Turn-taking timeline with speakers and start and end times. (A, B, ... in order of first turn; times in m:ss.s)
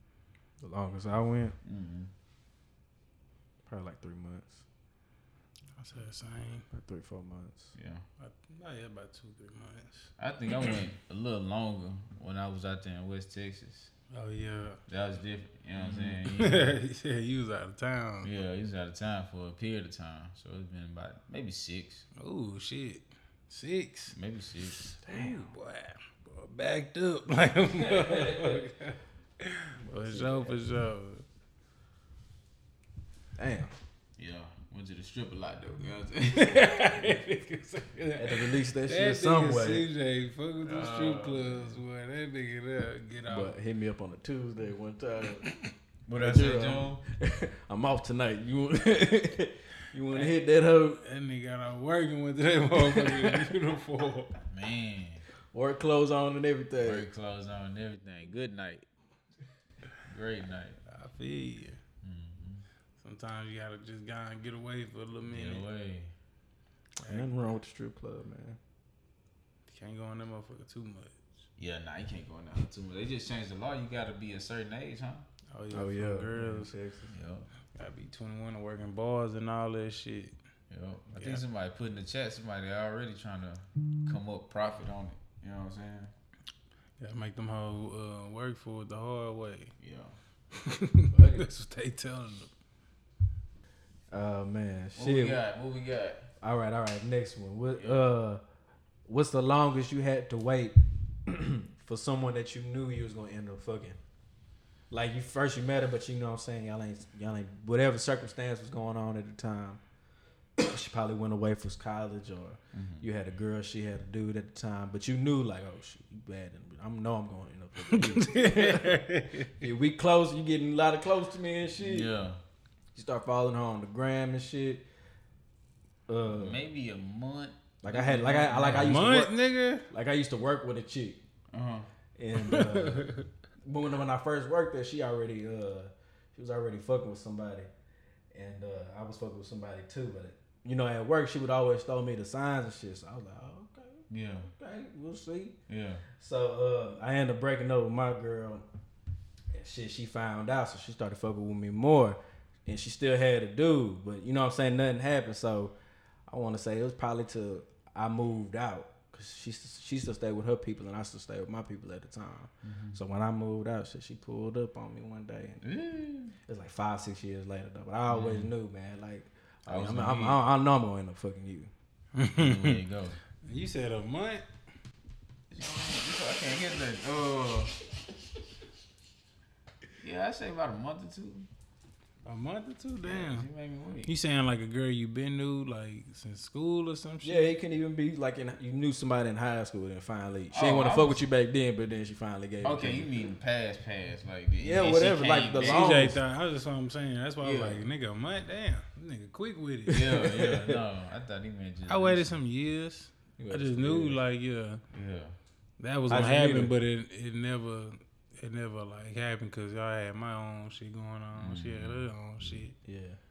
0:00.6-0:01.6 A
0:01.6-0:02.1 B
0:03.6-0:04.6 A
0:05.8-0:06.7 C
0:06.7-0:07.7 A
0:07.8-0:08.0 B
0:08.2-0:10.1 C
0:10.2-0:13.9 B
0:14.1-0:14.8 C
0:14.9-0:16.8 B
0:15.9-0:18.3 C
0:18.2-0:22.0 B
0:22.2-0:24.2 C
0:24.1-0:24.9 B
0:24.8-0:31.2 C
0:25.0-0:25.5 A
0:27.8-0:28.6 A
0:29.8-0:30.6 A
0:33.4-0:33.7 A
0:34.2-0:37.1 B
0:36.3-0:43.5 C
0:38.2-0:39.8 A
0:40.6-0:41.6 B
0:43.2-0:45.4 A
0:45.4-0:45.7 C
0:46.0-0:47.0 B
0:46.1-0:51.0 A
0:51.0-0:54.3 C
0:52.8-0:53.4 A
0:54.5-0:55.2 B
0:55.5-0:57.1 A
0:56.8-0:58.8 B
1:00.0-1:00.8 B
1:00.9-1:01.8 C
1:02.0-1:02.6 B
1:03.0-1:05.6 C
1:05.3-1:06.1 B
1:07.0-1:08.6 A
1:07.0-1:07.3 C
1:09.7-1:11.2 C
1:11.6-1:15.2 B
1:15.5-1:16.7 C
1:15.7-1:17.1 A
1:17.1-1:17.5 B
1:17.7-1:20.4 C
1:20.7-1:26.1 B
1:21.2-1:21.4 C
1:27.0-1:29.7 C
1:29.8-1:30.1 B
1:30.5-1:32.5 C
1:31.1-1:31.4 A
1:34.1-1:35.4 A
1:35.0-1:36.3 B
1:36.4-1:38.4 A
1:37.7-1:38.0 B
1:39.0-1:44.0 A
1:44.9-1:49.8 A
1:50.6-1:59.0 A
1:52.7-1:53.1 B
1:57.9-1:59.6 C
1:59.6-2:02.1 A
2:01.8-2:02.4 B
2:02.9-2:04.8 A
2:06.1-2:06.6 A
2:06.2-2:09.0 B
2:07.8-2:09.3 A
2:08.6-2:09.9 C
2:09.9-2:11.2 A
2:11.5-2:11.9 B
2:12.2-2:13.1 A
2:12.4-2:13.2 C
2:13.6-2:17.7 A
2:18.3-2:25.6 A
2:24.1-2:24.5 B
2:25.7-2:26.0 B
2:26.2-2:28.6 A
2:29.5-2:35.7 A
2:36.3-2:45.6 A
2:42.6-2:43.0 B
2:45.6-2:46.3 B
2:46.4-2:51.7 A
2:48.1-2:48.5 B
2:49.7-2:50.4 B
2:52.1-2:52.8 C
2:52.3-2:53.2 B
2:53.4-2:54.4 C
2:55.5-2:57.8 B
3:00.0-3:01.5 B
3:02.2-3:03.5 C
3:03.0-3:04.1 B
3:04.0-3:07.5 C
3:07.2-3:13.1 A
3:10.5-3:11.2 B
3:12.6-3:16.1 B
3:14.6-3:16.2 A
3:15.6-3:20.2 C
3:17.4-3:17.8 B
3:19.9-3:22.3 B
3:19.9-3:20.8 A
3:21.9-3:24.8 C
3:23.4-3:24.2 A
3:24.9-3:25.3 B
3:25.8-3:32.8 C
3:26.1-3:26.7 A
3:31.3-3:32.1 B
3:32.8-3:33.2 A